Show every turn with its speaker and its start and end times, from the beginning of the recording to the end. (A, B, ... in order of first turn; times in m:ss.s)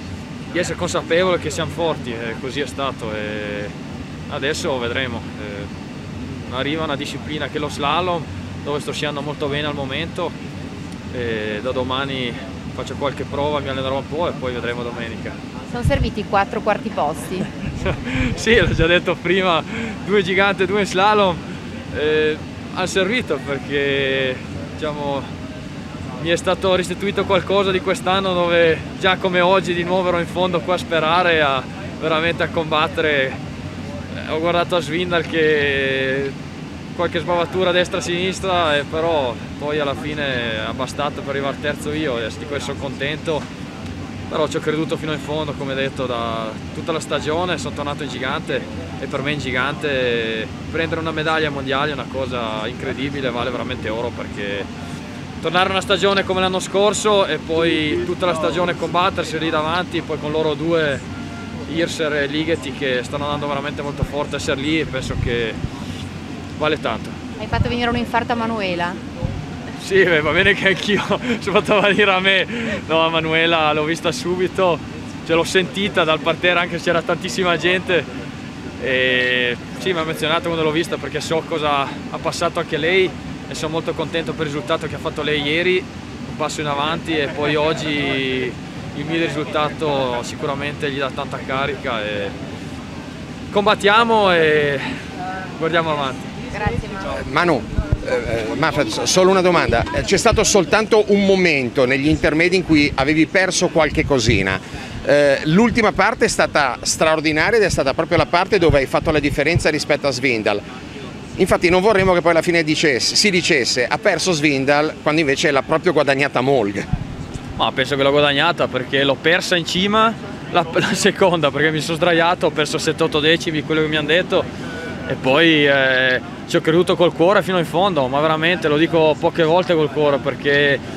0:00.5-0:03.7 A
0:04.3-0:05.7 A
0:06.4-0:10.3 A
0:11.1-0:15.4 A
0:15.7-0:17.5 B
0:17.8-0:21.4 A
0:21.9-0:25.3 A
0:26.2-0:33.4 A
0:34.1-0:36.3 A
0:36.9-0:43.4 A
0:44.3-0:54.7 A
0:55.4-1:01.0 A
1:01.7-1:05.6 A
1:06.6-1:07.2 A
1:07.4-1:09.0 B
1:09.8-1:18.1 A
1:18.8-1:32.3 A
1:33.5-1:34.9 A
1:35.6-1:36.3 A
1:36.5-1:37.1 B
1:37.1-1:50.6 C
1:51.4-1:56.8 C
1:57.6-2:04.4 A
2:05.1-2:10.8 A